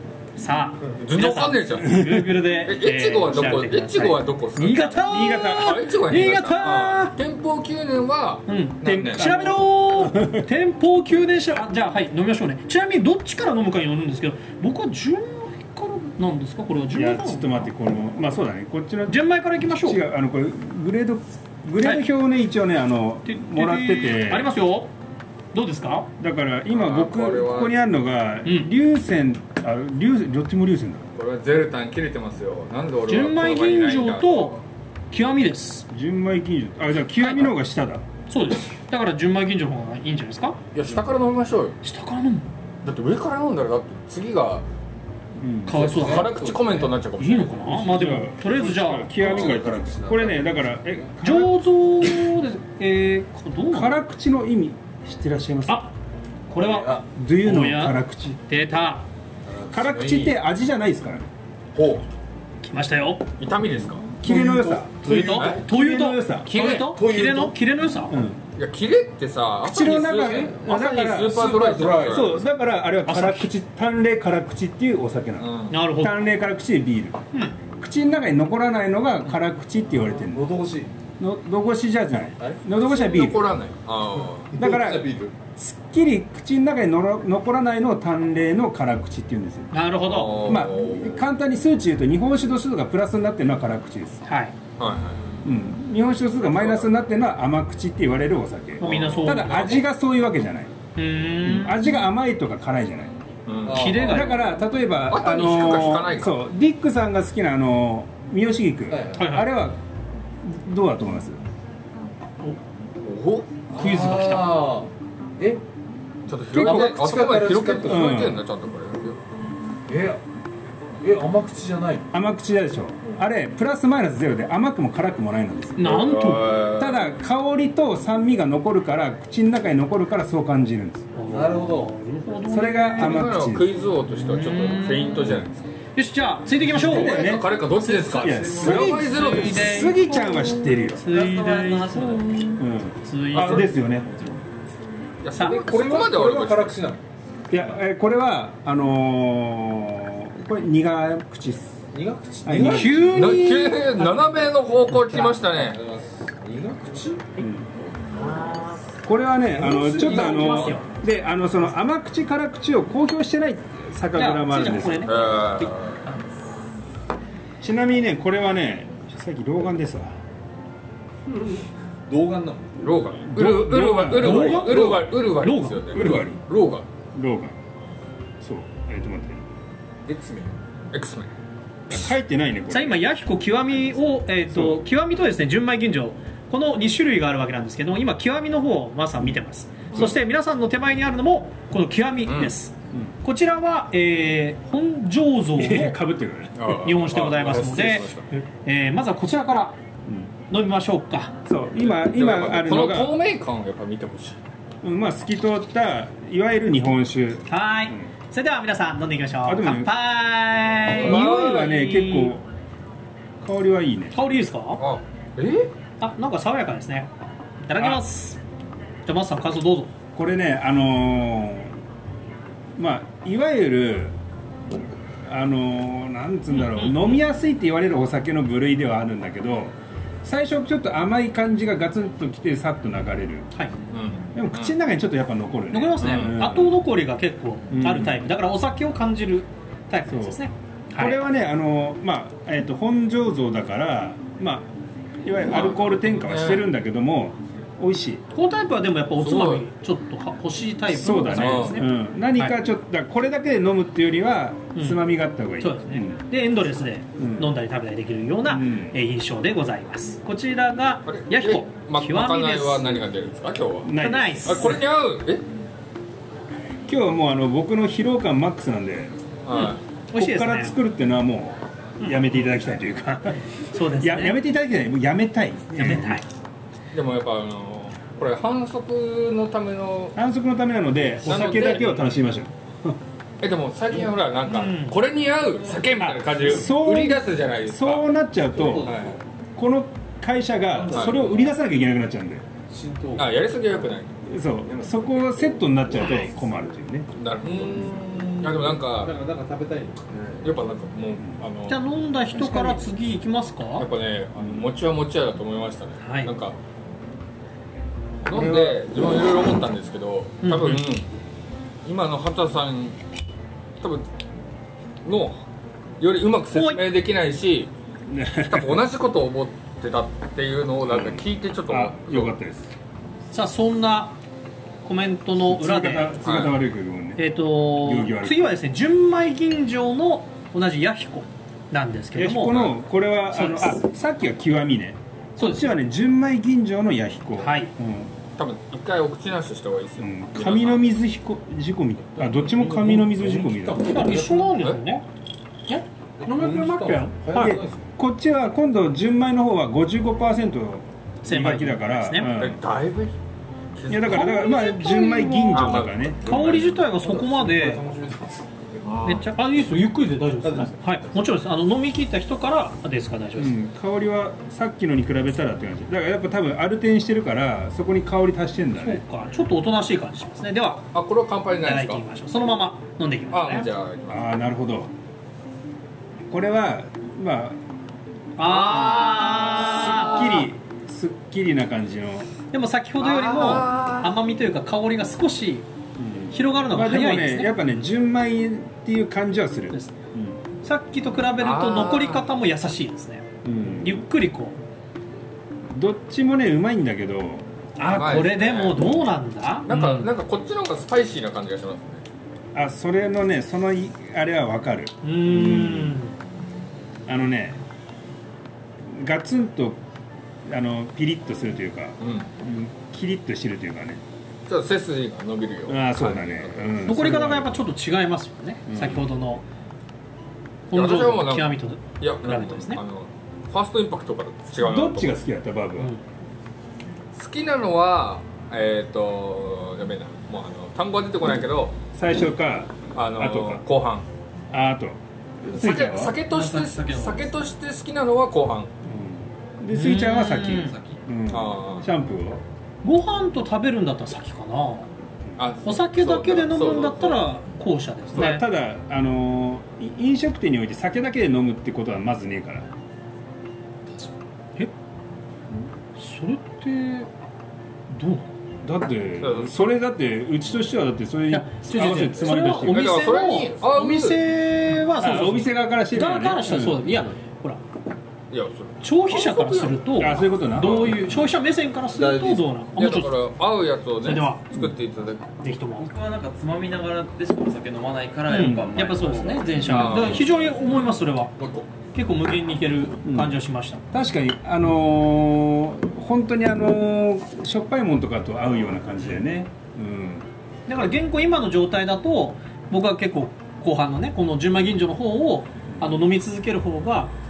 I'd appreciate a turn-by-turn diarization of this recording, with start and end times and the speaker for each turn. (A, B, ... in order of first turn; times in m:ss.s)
0:00.4-0:07.2 A
0:01.0-0:02.0 B
0:01.8-0:02.4 C
0:02.6-0:05.0 B
0:05.0-0:05.8 C
0:05.5-0:09.3 B
0:08.5-0:17.7 A
0:08.8-0:10.4 C
0:16.9-0:19.2 C
0:19.1-0:20.0 A
0:19.8-0:24.5 C
0:23.3-0:24.9 A
0:25.5-0:26.1 A
0:26.2-0:31.1 C
0:26.7-0:27.8 B
0:28.4-0:28.7 A
0:31.2-0:34.6 B
0:33.1-0:34.6 A
0:35.1-0:35.9 A
0:35.9-0:38.0 C
0:37.2-0:37.5 A
0:38.3-0:40.6 A
0:40.7-0:41.8 B
0:41.8-0:42.5 A
0:42.8-0:44.7 B
0:45.4-0:45.8 C
0:45.7-0:46.4 A
0:45.7-0:48.1 B
0:45.7-0:46.9 D
0:47.2-0:49.1 A
0:47.8-0:51.6 C
0:49.0-0:51.1 D
0:49.2-0:49.6 B
0:51.2-0:54.0 A
0:53.7-0:55.9 C
0:55.7-0:55.9 A
0:56.5-0:59.0 A
0:56.6-0:57.1 D
0:57.0-0:58.4 C
0:59.4-1:00.4 D
0:59.7-1:01.3 C
1:01.8-1:02.0 D
1:02.6-1:03.2 A
1:03.4-1:04.1 B
1:04.2-1:06.5 C
1:04.2-1:05.6 D
1:05.0-1:08.2 A
1:05.3-1:05.6 B
1:06.5-1:06.9 B
1:06.6-1:07.5 D
1:08.1-1:08.4 C
1:08.6-1:12.4 B
1:09.6-1:17.2 C
1:10.2-1:12.4 D
1:13.0-1:13.5 A
1:15.4-1:15.8 B
1:15.7-1:16.2 A
1:17.8-1:20.4 C
1:20.0-1:20.9 D
1:21.2-1:23.5 C
1:22.4-1:22.6 D
1:22.7-1:24.6 B
1:24.5-1:25.4 D
1:24.6-1:29.7 C
1:29.7-1:30.6 A
1:30.0-1:31.2 B
1:30.4-1:34.3 C
1:34.3-1:34.6 A
1:34.8-1:35.3 B
1:35.4-1:40.7 C
1:36.4-1:36.9 B
1:38.8-1:39.8 A
1:38.8-1:39.8 B
1:41.0-1:41.8 A
1:41.4-1:43.1 C
1:43.5-1:44.0 B
1:43.6-1:44.4 D
1:43.7-1:44.5 A
1:44.1-1:49.8 C
1:45.1-1:46.4 B
1:48.9-1:49.4 D
1:49.2-1:49.5 A
1:50.4-1:51.4 C
1:53.0-1:53.6 B
1:53.7-1:55.6 D
1:53.8-1:54.7 A
1:56.3-1:59.2 B
1:56.5-1:57.0 C
1:56.6-1:58.2 D
1:57.8-1:58.4 C
1:59.9-2:00.2 D
2:01.0-2:02.1 D
2:02.1-2:06.0 C
2:05.8-2:06.5 A
2:05.8-2:07.1 B
2:06.8-2:11.1 C
2:11.2-2:13.3 A
2:11.3-2:12.0 D
2:12.5-2:13.7 C
2:12.9-2:15.6 B
2:14.1-2:15.4 A
2:16.0-2:23.8 A
2:16.7-2:19.9 B
2:16.7-2:21.0 C
2:18.1-2:19.4 D
2:21.0-2:22.6 E
2:22.6-2:24.1 C
2:23.4-2:23.7 B
2:25.2-2:26.8 B
2:25.4-2:25.7 A
2:25.4-2:27.6 D
2:27.5-2:31.8 C
2:31.9-2:33.5 D
2:32.4-2:33.0 C
2:32.6-2:34.2 A
2:33.1-2:35.8 B
2:34.9-2:35.3 A
2:35.2-2:38.8 D
2:37.4-2:37.7 C
2:38.3-2:38.6 A
2:39.0-2:45.1 C
2:39.6-2:40.8 D
2:39.6-2:40.9 A
2:44.2-2:45.7 A
2:45.0-2:46.1 B
2:47.6-2:50.2 C
2:51.3-2:52.9 D
2:52.8-2:56.9 B
2:53.3-2:55.1 C
2:54.1-2:56.1 A
2:55.9-2:56.4 C
2:57.1-2:57.6 C
2:58.4-2:59.5 C
3:00.0-3:00.6 D
3:00.9-3:01.3 B
3:01.9-3:03.0 C
3:02.7-3:16.0 A
3:04.5-3:04.8 C
3:12.2-3:12.6 B
3:15.6-3:16.6 C
3:16.6-3:18.3 B
3:16.7-3:19.8 A
3:20.1-3:20.3 C
3:20.5-3:21.4 A
3:21.4-3:23.2 C
3:21.8-3:24.4 B
3:24.8-3:28.1 C
3:27.5-3:32.4 A
3:29.4-3:29.9 C
3:30.9-3:32.4 C
3:30.9-3:31.8 B
3:33.4-3:34.2 C
3:34.1-3:34.8 A
3:34.8-3:35.7 B
3:36.0-3:37.1 A
3:37.6-3:38.4 A
3:37.8-3:38.0 C
3:39.1-3:39.9 A
3:40.2-3:41.8 C
3:42.8-3:44.2 C
3:45.2-3:53.5 C
3:46.5-3:47.2 A
3:53.9-3:54.8 B
3:54.3-3:56.8 C
3:55.7-4:01.2 A
3:56.0-3:56.3 B
3:57.7-3:58.3 C
4:00.1-4:00.4 C
4:01.0-4:04.7 C
4:05.2-4:08.2 C
4:05.5-4:06.7 B
4:08.3-4:12.6 A
4:09.2-4:09.6 B
4:10.9-4:16.2 C
4:11.3-4:11.8 B
4:14.8-4:15.0 A
4:15.6-4:23.0 A
4:17.2-4:17.5 C
4:18.5-4:19.0 C
4:21.1-4:23.9 B
4:23.8-4:24.8 C
4:24.0-4:24.8 A
4:24.4-4:25.4 B
4:26.9-4:29.1 C
4:29.4-4:29.8 B
4:29.6-4:30.8 A
4:30.1-4:36.2 C
4:33.7-4:34.4 A
4:35.8-4:36.2 A
4:36.9-4:40.2 B
4:40.2-4:43.0 C
4:41.2-4:42.1 A
4:41.2-4:42.1 B
4:43.4-4:48.1 B
4:44.5-4:45.0 A
4:46.0-4:46.3 A
4:46.4-4:49.0 C
4:48.5-4:49.2 D
4:48.8-4:49.1 B
4:49.6-4:52.5 C
4:50.7-4:51.5 D
4:50.9-4:51.2 B
4:52.7-4:53.9 D
4:53.2-4:54.2 B
4:54.3-4:57.1 C
4:54.7-4:56.3 D
4:56.0-4:56.3 A
4:57.2-4:59.2 B
4:57.4-5:00.7 D
5:00.4-5:01.8 B
5:01.7-5:03.9 A
5:03.8-5:06.6 B
5:06.0-5:06.4 A
5:08.2-5:11.1 B
5:08.3-5:08.8 C
5:10.4-5:10.9 A
5:11.8-5:13.0 B
5:13.8-5:14.1 B
5:15.0-5:15.4 B
5:16.0-5:17.7 B
5:16.5-5:16.8 A
5:18.1-5:18.8 C
5:18.4-5:22.3 B
5:20.8-5:22.7 C
5:23.3-5:24.2 A
5:24.8-5:26.2 A
5:25.4-5:28.5 C
5:26.2-5:26.6 B
5:27.2-5:32.8 A
5:32.2-5:38.1 C
5:33.3-5:33.8 A
5:35.4-5:35.7 A
5:37.4-5:37.7 A
5:38.4-5:40.9 B
5:40.0-5:43.9 C
5:42.2-5:44.6 D
5:43.8-5:45.0 A
5:45.7-5:47.6 A
5:46.2-5:47.9 D
5:47.4-5:52.6 C
5:51.2-5:52.3 A
5:52.3-5:53.2 B
5:53.8-5:54.4 B
5:53.9-5:56.2 C
5:54.0-5:57.8 A
5:55.5-5:56.7 B
5:56.2-5:59.2 D
5:58.9-5:59.2 B
5:59.0-6:03.6 A
6:00.4-6:01.3 D
6:03.4-6:09.0 C
6:08.8-6:10.9 A
6:10.9-6:12.0 B
6:11.6-6:13.7 A
6:13.3-6:14.3 B
6:14.1-6:14.9 C
6:16.3-6:17.6 C
6:18.4-6:20.4 A
6:18.4-6:20.5 B
6:19.4-6:22.3 C
6:22.5-6:25.7 A
6:23.0-6:24.2 B
6:26.0-6:30.4 C
6:26.3-6:27.6 A
6:30.6-6:34.6 A
6:31.4-6:32.3 B
6:33.4-6:34.0 C
6:35.7-6:37.5 C
6:37.8-6:40.1 A
6:37.8-6:39.0 B
6:39.7-6:42.0 B
6:42.6-6:46.0 C
6:45.0-6:46.2 A
6:47.1-6:47.6 C
6:48.9-6:49.8 C
6:50.5-6:54.0 C
6:52.0-6:52.3 B
6:54.5-6:57.0 B
6:55.7-6:57.6 C
6:56.8-6:59.4 A
6:58.7-6:59.1 C
7:00.7-7:02.8 A
7:00.7-7:05.2 B
7:04.6-7:05.9 C
7:07.1-7:11.8 B
7:11.9-7:13.6 C
7:13.0-7:14.1 B
7:14.5-7:16.2 C
7:15.5-7:18.7 B
7:16.2-7:17.4 E
7:18.8-7:22.4 C
7:19.7-7:20.8 A
7:20.5-7:21.0 E
7:21.3-7:21.9 B
7:22.8-7:24.9 A
7:25.4-7:27.3 B
7:25.6-7:28.4 A
7:28.1-7:32.7 C
7:36.0-7:37.1 A
7:37.9-7:38.3 A
7:38.6-7:42.9 C
7:39.2-7:39.7 B
7:41.3-7:47.6 A
7:41.8-7:44.2 B
7:45.0-7:47.0 C
7:48.3-7:51.1 B
7:48.8-7:53.2 A
7:50.0-7:51.2 C
7:51.9-7:52.5 D
7:52.8-7:55.3 B
7:54.0-7:54.5 A
7:55.4-7:55.9 A
7:55.8-8:00.1 E
7:58.3-8:01.3 A
7:58.4-7:58.7 C
7:59.6-8:00.8 B
7:59.6-8:00.1 C
8:01.4-8:01.7 B
8:01.9-8:03.8 A
8:03.0-8:03.4 C
8:03.9-8:10.3 C
8:10.7-8:17.1 A